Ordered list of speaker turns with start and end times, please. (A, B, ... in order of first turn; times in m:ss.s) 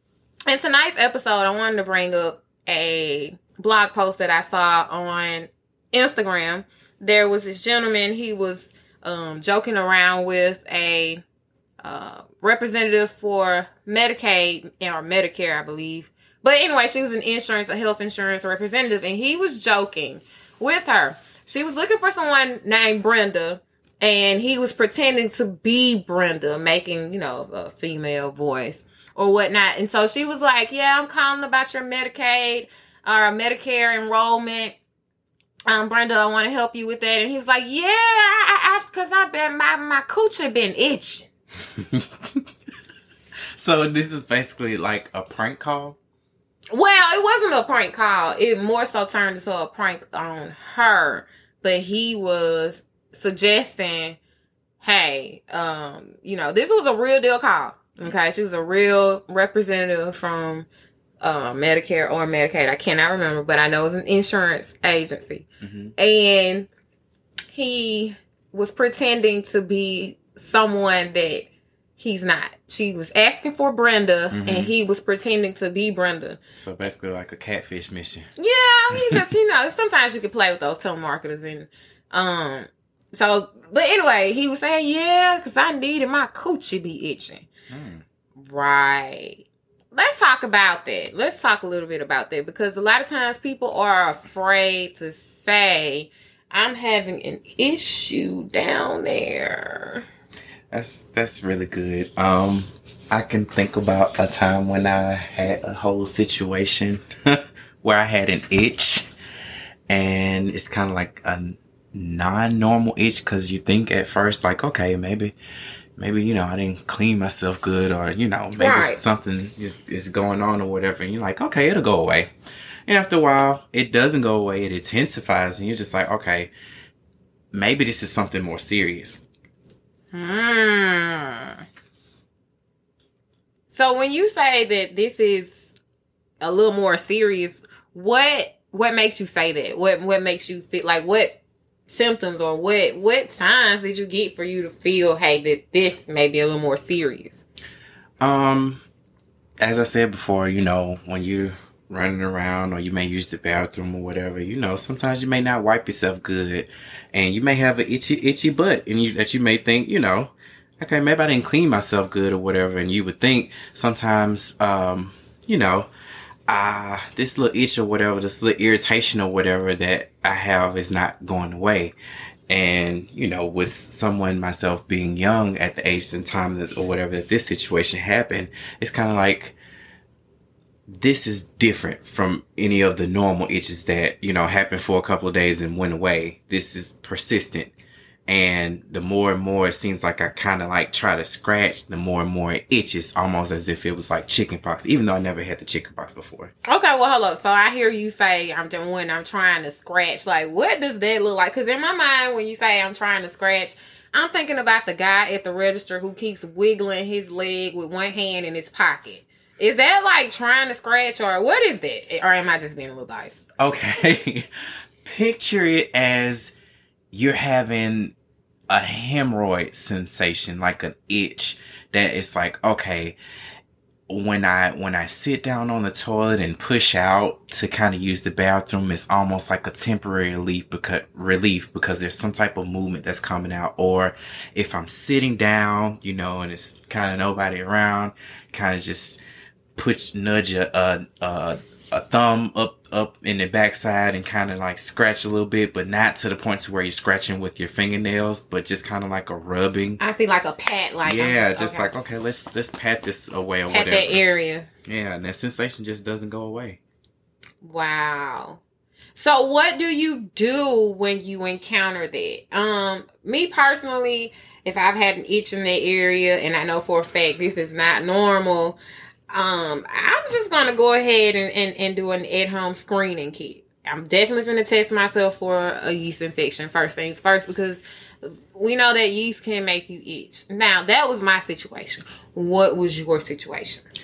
0:00.5-0:11.2 A
0:11.8-0:34.8 A
0:35.7-0:41.3 A
0:41.8-0:42.5 B
0:43.6-0:46.0 B
0:46.7-0:54.2 A
0:54.8-1:00.7 A
1:01.2-1:05.4 A
1:05.6-1:05.9 B
1:06.0-1:06.7 A
1:07.5-1:16.4 A
1:14.3-1:14.7 B
1:16.6-1:18.3 B
1:18.4-1:27.5 A
1:18.9-1:19.2 B
1:27.7-1:28.0 B
1:28.4-1:40.0 A
1:40.7-1:49.1 B
1:49.9-1:55.3 B
1:56.0-2:02.3 B
1:58.6-1:59.0 A
2:02.9-2:06.5 B
2:07.5-2:09.2 B
2:10.1-2:11.6 A
2:13.7-2:15.7 A
2:16.4-2:27.4 A
2:28.2-2:28.8 B
2:29.6-2:45.9 B
2:46.5-2:51.9 B
2:52.5-2:59.6 B
3:00.9-3:07.7 B
3:08.3-3:16.5 B
3:16.6-3:33.4 A
3:33.6-3:34.5 B
3:35.0-3:36.5 B
3:37.1-3:38.1 B
3:38.7-3:43.2 B
3:44.1-3:59.2 B
3:59.8-4:10.0 B
4:10.0-4:11.9 A
4:11.0-4:14.2 B
4:13.7-4:14.7 A
4:14.8-4:16.8 B
4:17.6-4:18.6 A
4:19.2-4:28.8 A
4:29.3-4:43.8 A